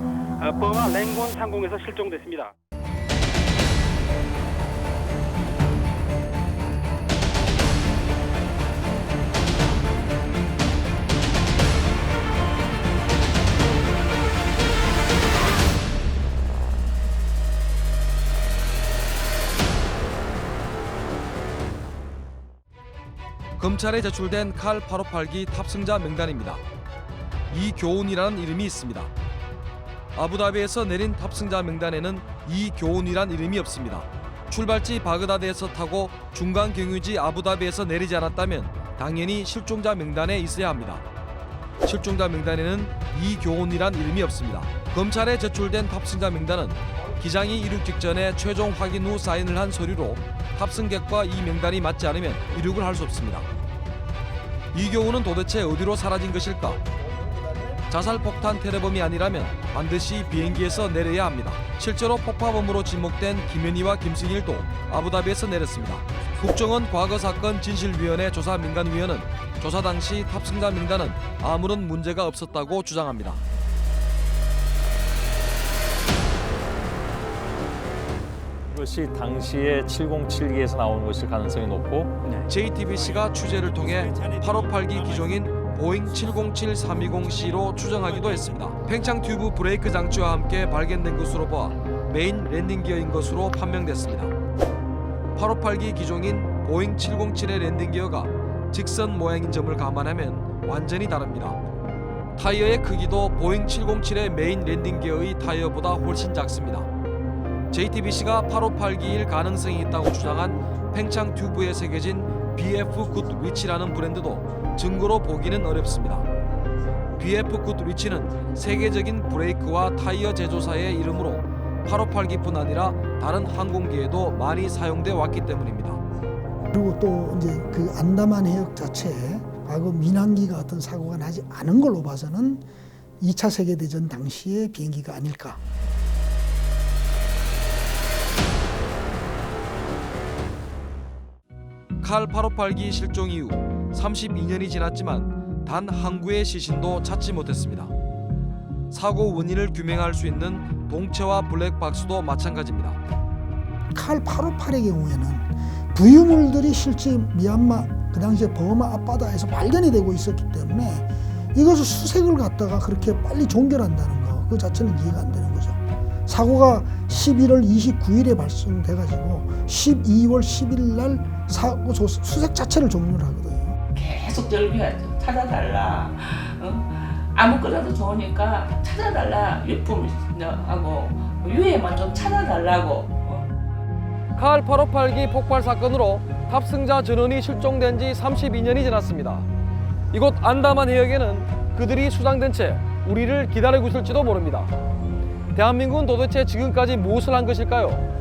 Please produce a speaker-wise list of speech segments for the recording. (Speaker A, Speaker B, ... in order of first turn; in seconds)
Speaker A: 0.4-2.5
Speaker B: 23.6-26.6, 27.5-29.1, 30.2-41.0, 41.8-53.5, 54.7-56.8, 57.9-73.4, 82.5-94.3, 95.3-101.6, 102.4-106.9, 107.7-116.3, 117.2-126.0, 142.0-147.9, 148.9-153.0, 184.4-189.4, 190.1-194.7, 195.6-198.0
Speaker C: 78.7-82.3
Speaker D: 126.7-132.7, 133.2-135.6, 153.9-173.8
Speaker E: 173.9-183.5